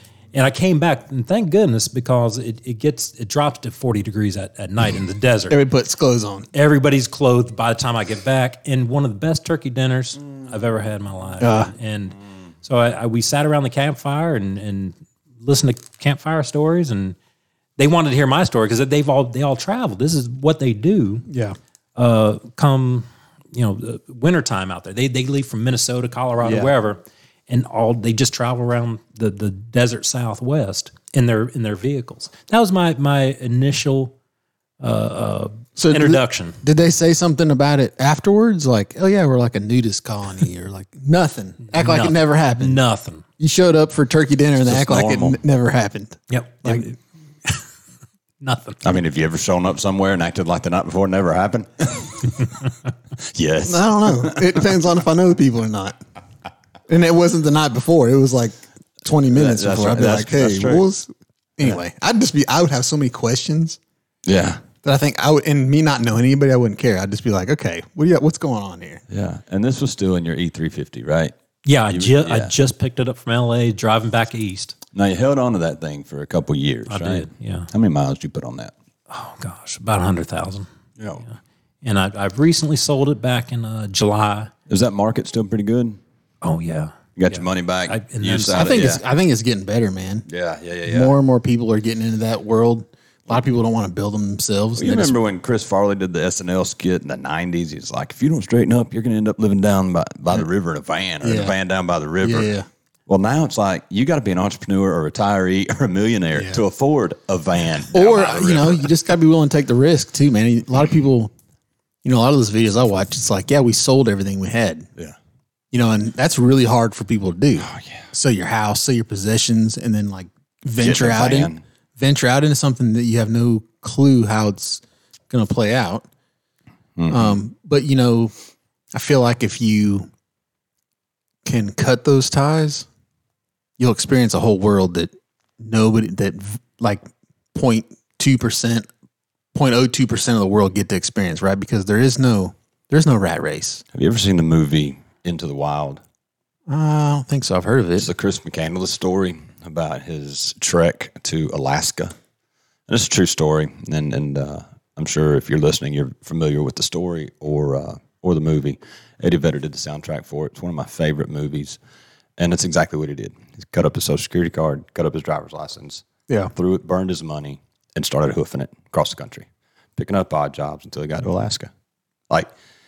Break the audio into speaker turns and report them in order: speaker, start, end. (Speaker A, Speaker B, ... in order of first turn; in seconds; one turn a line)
Speaker A: 0.3-5.6
Speaker B: 5.5-6.5
Speaker A: 6.5-17.2
Speaker B: 11.4-11.7
Speaker A: 17.8-21.3
Speaker B: 21.3-21.6
Speaker A: 22.0-34.1
Speaker A: 34.8-36.6
Speaker B: 35.8-42.8
Speaker A: 41.7-43.2
Speaker B: 43.4-46.9
Speaker C: 44.6-45.4
Speaker A: 46.3-47.6
Speaker A: 48.4-48.8
Speaker C: 48.8-52.4
Speaker C: 53.3-54.7
Speaker B: 53.6-56.0
Speaker B: 56.9-63.8
Speaker C: 59.3-60.9
Speaker C: 64.3-64.6
Speaker B: 64.8-69.0
Speaker C: 69.1-71.3
Speaker A: 71.7-74.8
Speaker C: 71.9-72.5
Speaker C: 74.9-78.7
Speaker A: 76.9-77.7
Speaker A: 79.1-80.7
Speaker C: 81.0-81.2
Speaker A: 81.2-84.5
Speaker C: 84.7-86.0
Speaker A: 86.4-88.8
Speaker C: 87.2-89.0
Speaker B: 88.5-90.3
Speaker C: 90.3-91.2
Speaker B: 90.9-95.2
Speaker C: 94.8-102.5
Speaker B: 101.2-101.5
Speaker B: 102.2-102.7
Speaker C: 103.1-108.9
Speaker B: 106.3-106.6
Speaker B: 107.9-111.3
Speaker B: 112.0-114.9
Speaker B: 115.7-126.1
Speaker C: 117.6-118.1
Speaker C: 120.8-121.6
Speaker C: 127.0-127.4
Speaker B: 127.1-128.3
Speaker B: 128.9-130.1
Speaker B: 131.4-132.9
Speaker B: 133.8-138.9
Speaker B: 139.5-143.8
Speaker C: 143.9-146.0
Speaker B: 146.7-148.1
Speaker C: 148.0-152.2
Speaker C: 152.9-161.8
Speaker C: 162.4-166.0
Speaker C: 166.6-171.7